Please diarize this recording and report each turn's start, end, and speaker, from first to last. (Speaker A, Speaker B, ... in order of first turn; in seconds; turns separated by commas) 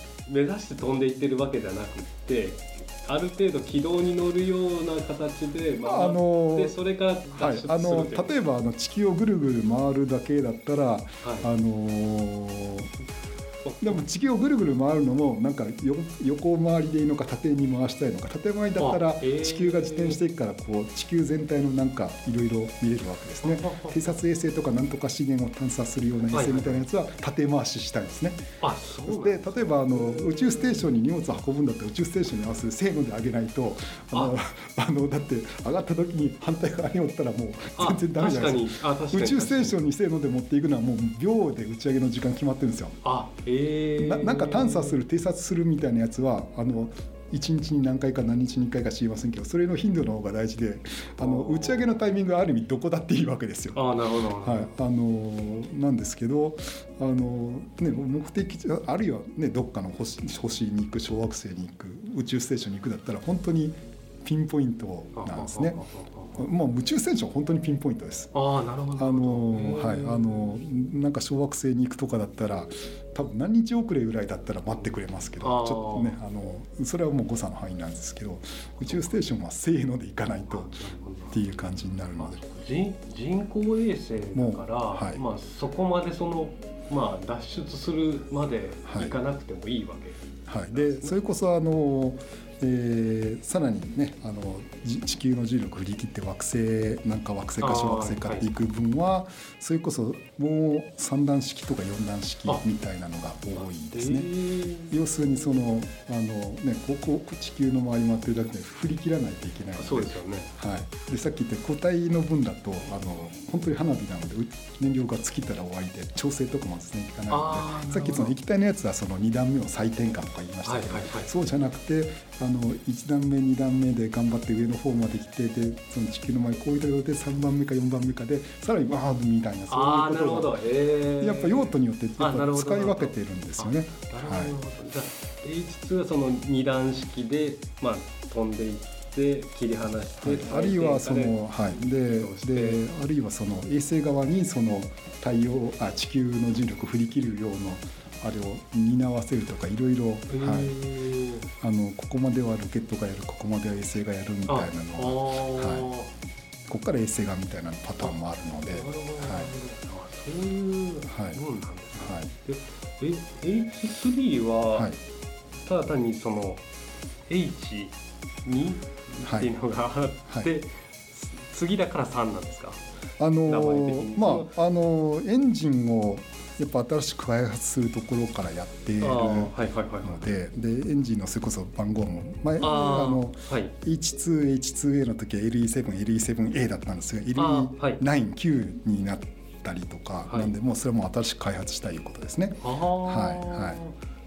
Speaker A: 0.2-8.4, Speaker B: 5.8-6.8, Speaker B: 7.3-12.9, Speaker A: 11.2-11.5, Speaker A: 13.6-14.0, Speaker B: 13.8-28.4, Speaker A: 18.8-20.2, Speaker A: 23.4-24.0, Speaker A: 26.3-26.9, Speaker A: 28.6-30.9, Speaker B: 29.1-43.0, Speaker A: 37.8-39.8, Speaker A: 43.0-45.0, Speaker B: 44.0-53.8, Speaker A: 51.2-52.0, Speaker A: 53.7-54.7, Speaker B: 54.4-65.8, Speaker A: 65.2-66.4, Speaker B: 66.3-68.3, Speaker A: 68.3-70.6, Speaker B: 68.9-80.8, Speaker A: 75.4-76.2, Speaker A: 78.9-79.2, Speaker A: 80.5-81.4, Speaker B: 81.3-82.4, Speaker A: 82.2-90.2, Speaker B: 84.3-85.2, Speaker B: 88.8-89.2, Speaker B: 90.5-104.3, Speaker A: 90.7-91.2, Speaker A: 97.6-98.5, Speaker A: 103.7-105.5, Speaker B: 104.9-130.6, Speaker A: 109.8-110.5, Speaker A: 117.3-118.3, Speaker A: 120.6-121.3, Speaker A: 129.7-142.8, Speaker B: 131.2-134.6, Speaker B: 140.2-150.7, Speaker A: 150.3-151.4, Speaker B: 151.6-155.9, Speaker A: 154.5-156.1, Speaker B: 156.7-159.5, Speaker A: 158.0-164.9, Speaker B: 161.1-161.4, Speaker B: 161.9-162.3, Speaker B: 164.7-165.0, Speaker A: 165.6-166.6, Speaker A: 167.3-172.8, Speaker B: 169.2-169.5, Speaker B: 173.2-193.8, Speaker A: 173.4-174.5, Speaker A: 179.0-180.2, Speaker A: 182.6-183.7, Speaker A: 187.3-188.0, Speaker A: 190.3-190.5, Speaker A: 192.6-193.9